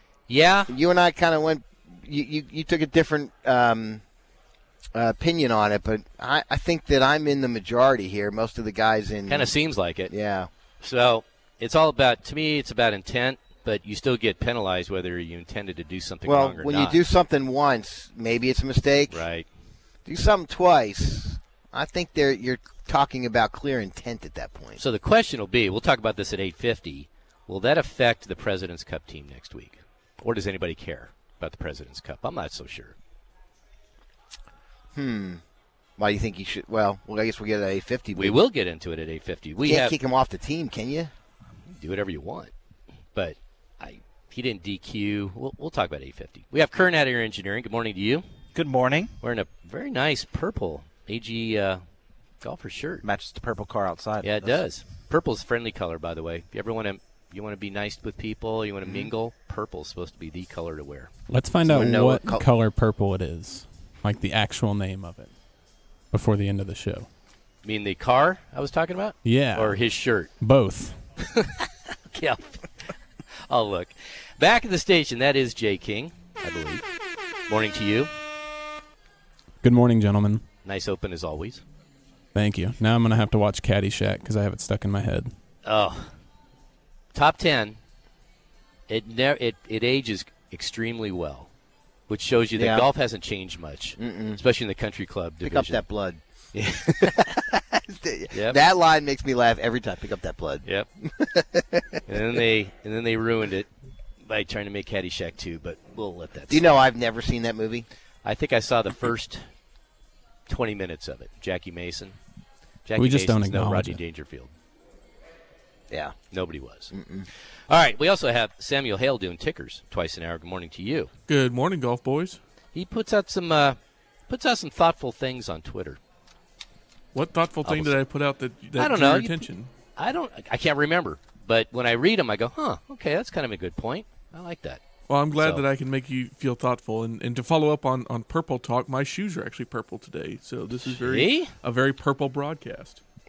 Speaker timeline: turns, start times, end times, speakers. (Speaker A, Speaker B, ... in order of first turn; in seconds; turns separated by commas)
Speaker A: 0.3-0.7, Speaker B: 0.7-4.0, Speaker B: 4.9-9.5, Speaker A: 9.3-10.1, Speaker B: 10.1-10.5, Speaker A: 10.8-17.0, Speaker B: 16.2-19.2, Speaker A: 19.1-19.5, Speaker B: 20.1-24.8, Speaker A: 24.8-33.0, Speaker B: 34.9-35.4, Speaker B: 36.0-38.4, Speaker A: 38.1-40.0, Speaker B: 39.6-41.1, Speaker A: 41.7-42.5, Speaker A: 43.1-48.2, Speaker C: 48.5-49.1, Speaker A: 49.2-51.8, Speaker A: 52.4-53.0, Speaker C: 53.0-54.6, Speaker A: 54.2-61.1, Speaker D: 61.3-65.3, Speaker B: 61.6-62.5, Speaker D: 66.1-67.1, Speaker A: 67.6-70.3, Speaker D: 69.2-69.8, Speaker D: 70.4-71.0, Speaker A: 71.2-72.7, Speaker A: 73.5-76.8, Speaker A: 77.5-78.1, Speaker D: 79.6-80.4, Speaker A: 80.6-81.6, Speaker D: 82.3-85.3, Speaker A: 85.6-86.1, Speaker A: 87.1-87.8, Speaker A: 88.9-91.5, Speaker A: 92.1-95.8, Speaker B: 92.5-92.9, Speaker B: 94.0-94.4, Speaker B: 95.4-96.2, Speaker A: 96.5-97.3, Speaker B: 96.9-102.2, Speaker A: 98.3-98.6, Speaker A: 102.1-103.7, Speaker A: 104.2-106.8, Speaker B: 106.5-107.9, Speaker A: 108.2-109.4, Speaker A: 110.5-112.2, Speaker A: 112.8-114.5, Speaker D: 113.0-114.0, Speaker B: 115.9-116.2, Speaker A: 116.3-116.9, Speaker B: 116.9-117.3, Speaker A: 117.7-121.1, Speaker E: 121.3-122.4, Speaker A: 122.7-123.8, Speaker A: 124.3-126.0, Speaker E: 127.1-129.7, Speaker A: 127.6-127.9, Speaker A: 128.8-129.4, Speaker A: 129.9-134.8, Speaker E: 135.1-143.0, Speaker A: 135.3-135.6, Speaker A: 140.8-141.5